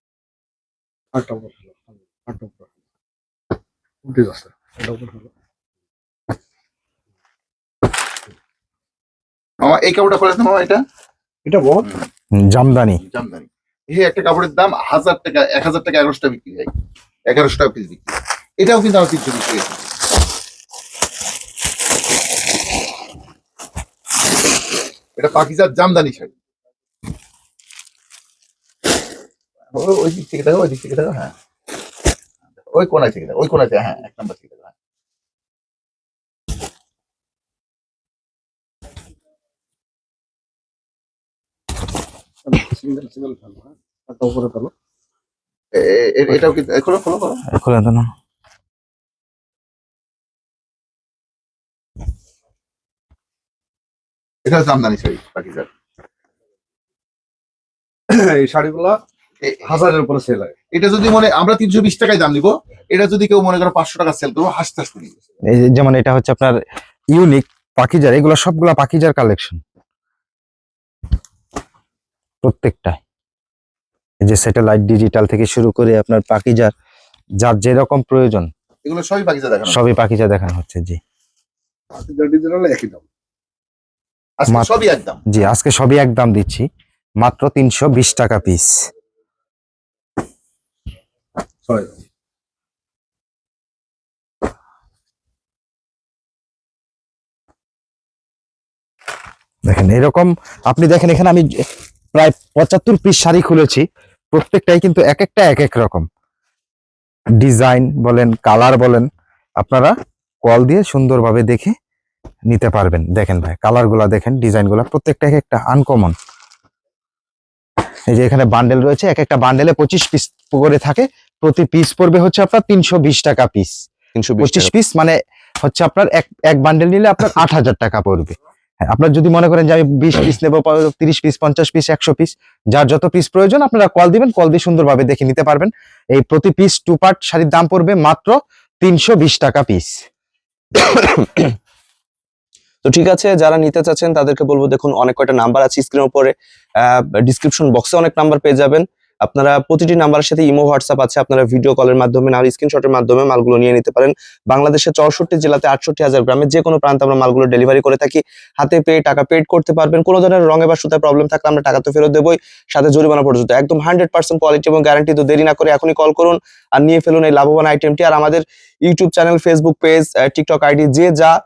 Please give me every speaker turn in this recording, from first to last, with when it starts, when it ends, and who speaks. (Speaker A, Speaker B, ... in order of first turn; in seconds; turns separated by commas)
Speaker A: 1.1-2.7, Speaker A: 4.0-5.3, Speaker B: 9.6-10.8, Speaker A: 11.4-11.8, Speaker C: 12.3-13.0, Speaker B: 13.0-16.7, Speaker B: 17.3-19.8, Speaker B: 25.2-26.3, Speaker B: 29.7-31.3, Speaker B: 32.7-34.7, Speaker A: 42.5-44.7, Speaker B: 45.7-47.4, Speaker C: 47.5-48.1, Speaker B: 54.4-55.7, Speaker A: 58.1-59.0, Speaker B: 59.4-59.7, Speaker A: 59.6-60.5, Speaker B: 60.7-65.1, Speaker C: 65.5-66.6, Speaker C: 67.1-69.6, Speaker C: 72.4-73.0, Speaker C: 74.2-76.7, Speaker C: 77.4-78.5, Speaker B: 78.8-79.8, Speaker C: 79.7-81.0, Speaker A: 81.9-83.0, Speaker B: 84.4-85.2, Speaker C: 85.3-86.7, Speaker C: 87.2-88.7, Speaker A: 91.7-92.0, Speaker C: 99.7-106.0, Speaker C: 107.4-109.1, Speaker C: 109.6-111.7, Speaker C: 112.5-116.1, Speaker C: 118.1-123.7, Speaker D: 124.2-124.7, Speaker C: 124.4-128.3, Speaker C: 128.9-139.9, Speaker D: 140.8-141.6, Speaker D: 142.8-171.3